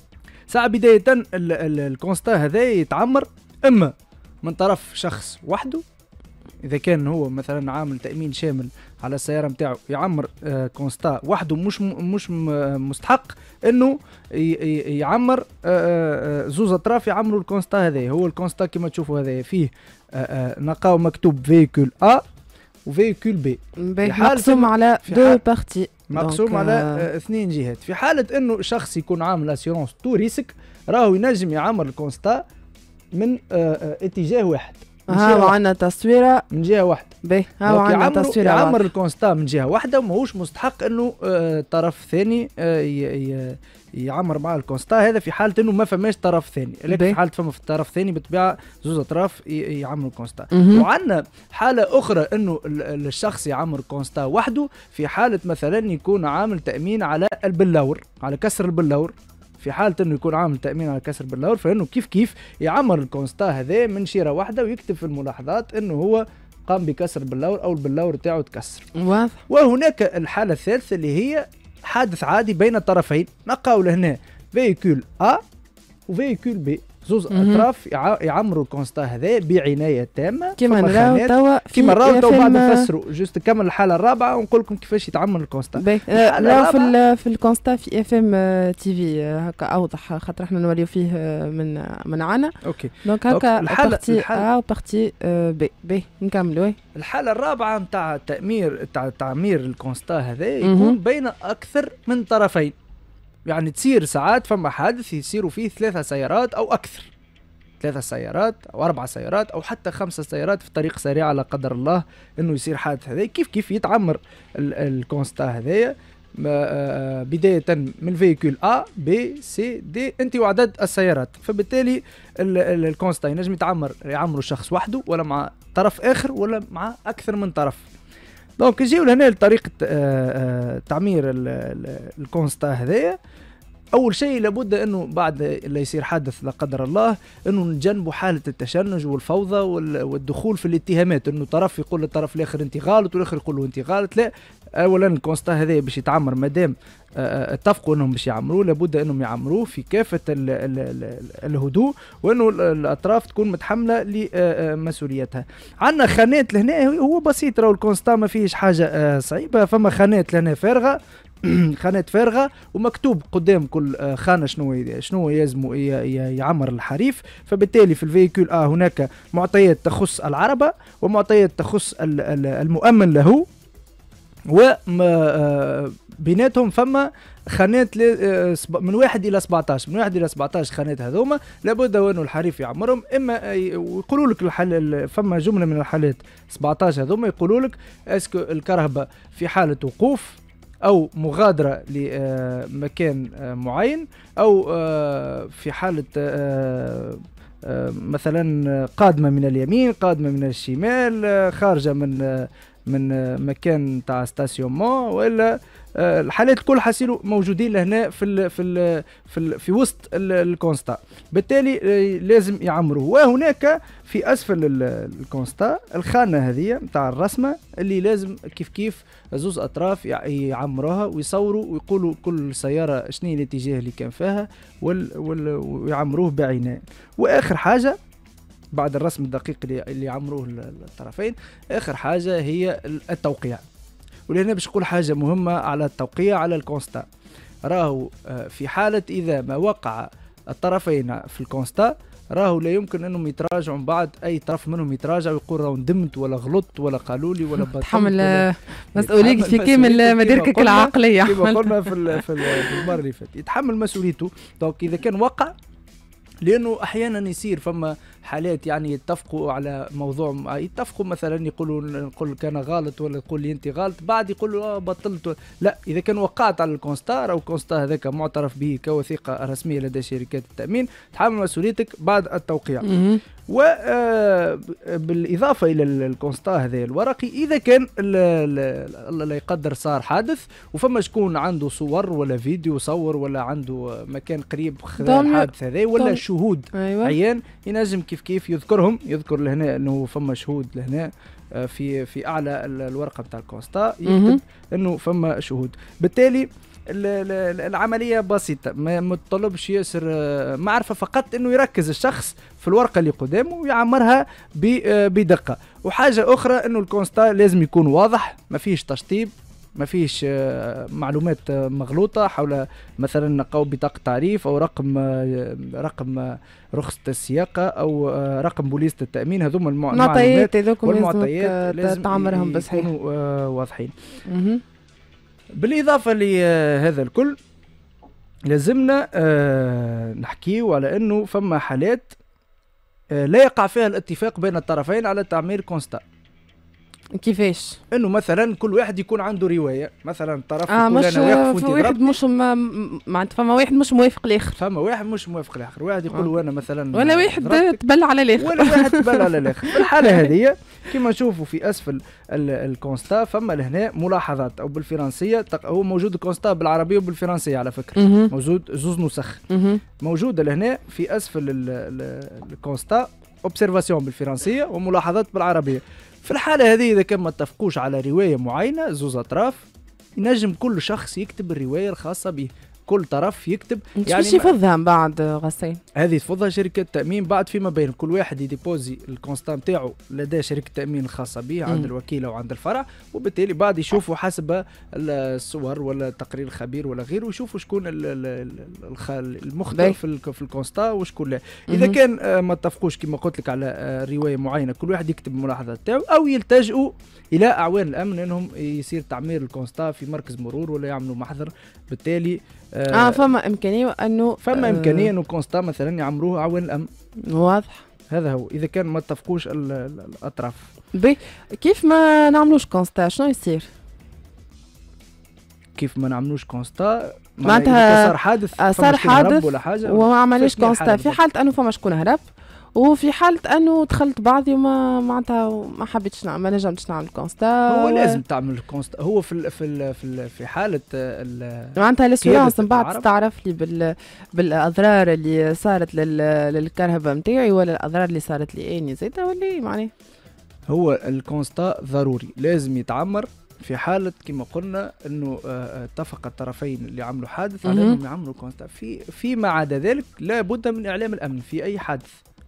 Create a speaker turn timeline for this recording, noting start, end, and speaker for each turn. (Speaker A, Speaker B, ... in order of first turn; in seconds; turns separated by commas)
Speaker A: 0.5-5.8, Speaker A: 6.6-22.2, Speaker A: 22.9-25.4, Speaker B: 23.8-27.0, Speaker A: 26.1-32.4, Speaker A: 33.1-35.6, Speaker B: 35.1-36.4, Speaker A: 36.5-37.1, Speaker B: 37.2-38.9, Speaker A: 37.6-68.9, Speaker B: 46.9-47.2, Speaker B: 50.5-50.9, Speaker B: 69.0-69.4, Speaker A: 69.5-75.4, Speaker A: 76.1-86.9, Speaker B: 77.3-77.7, Speaker B: 80.6-82.9, Speaker B: 85.8-96.8, Speaker A: 92.6-94.5, Speaker A: 96.9-102.8, Speaker B: 100.6-101.0, Speaker A: 103.5-107.1, Speaker A: 107.8-127.9, Speaker A: 128.6-133.2, Speaker A: 133.9-173.4, Speaker A: 174.5-228.0, Speaker A: 228.7-233.6, Speaker A: 234.3-237.1, Speaker A: 237.6-255.5, Speaker B: 247.7-252.9, Speaker A: 256.4-272.9, Speaker B: 272.8-273.2, Speaker A: 273.5-323.9, Speaker B: 285.0-286.2, Speaker B: 286.7-287.2, Speaker B: 294.1-294.4, Speaker B: 319.9-322.9, Speaker B: 324.3-324.6, Speaker A: 325.6-327.4, Speaker A: 328.5-332.1, Speaker A: 333.1-336.0, Speaker B: 337.1-337.8, Speaker A: 337.9-342.1, Speaker B: 340.7-344.6, Speaker A: 344.6-347.8, Speaker B: 346.9-350.3, Speaker A: 348.4-359.4, Speaker B: 358.0-358.3, Speaker B: 359.5-359.8, Speaker A: 360.0-374.5, Speaker B: 374.0-375.8, Speaker A: 376.0-403.2, Speaker B: 389.7-390.0, Speaker B: 391.7-392.0, Speaker B: 402.9-405.1, Speaker A: 404.4-406.9, Speaker B: 407.3-407.8, Speaker A: 408.1-410.7, Speaker B: 410.9-413.7, Speaker A: 415.8-421.2, Speaker B: 417.4-422.2, Speaker B: 422.8-428.2, Speaker A: 427.7-433.0, Speaker B: 431.8-439.9, Speaker A: 440.7-452.1, Speaker B: 447.6-448.0